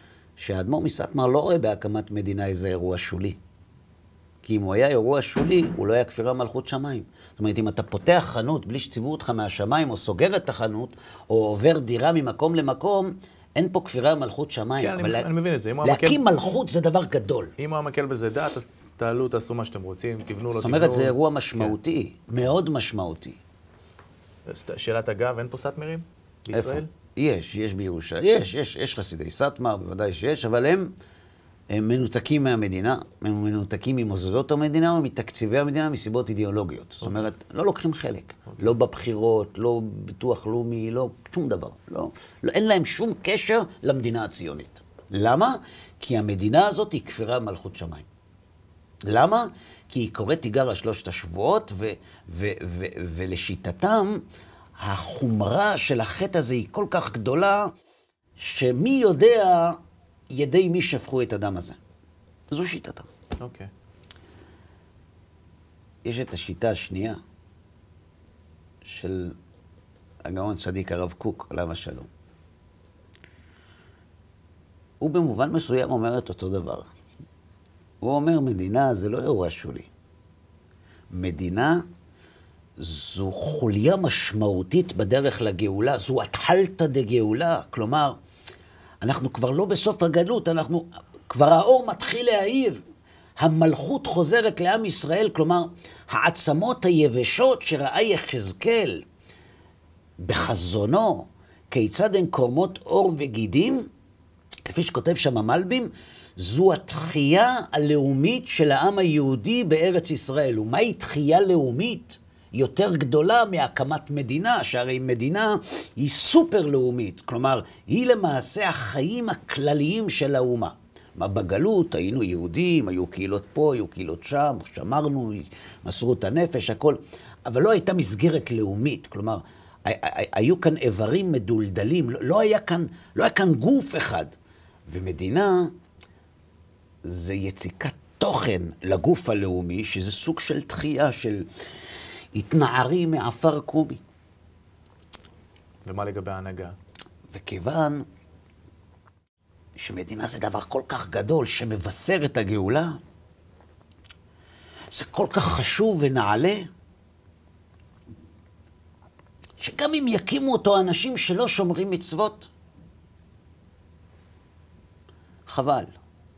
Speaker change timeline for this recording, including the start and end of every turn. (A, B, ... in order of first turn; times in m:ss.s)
0:00.4-0:03.4 A
0:04.4-0:15.3 A
0:14.8-0:16.2 B
0:15.8-0:17.5 A
0:17.6-0:21.8 B
0:20.5-0:23.4 A
0:24.5-0:26.9 B
0:26.5-0:30.9 A
0:31.7-0:48.1 A
0:37.0-0:37.3 B
0:49.1-0:54.2 A
0:54.8-0:57.7 A
0:58.4-0:59.8 A
1:00.3-1:01.8 A
1:02.5-1:03.1 A
1:03.4-1:03.7 B
1:06.0-1:07.2 A
1:08.8-1:09.4 A
1:10.2-1:12.1 A
1:15.0-1:16.9 A
1:18.0-1:19.9 A
1:21.1-1:21.8 A
1:22.8-1:28.2 A
1:29.0-1:32.8 A
1:33.4-1:39.0 A
1:40.2-1:43.9 A
1:44.6-2:14.3 A
2:14.9-2:15.7 A
2:17.0-2:21.4 A
2:22.3-2:24.0 A
2:25.8-2:26.7 B
2:27.3-2:28.0 A
2:29.8-2:33.0 A
2:34.9-2:36.7 A
2:39.6-2:42.5 A
2:45.5-2:45.9 A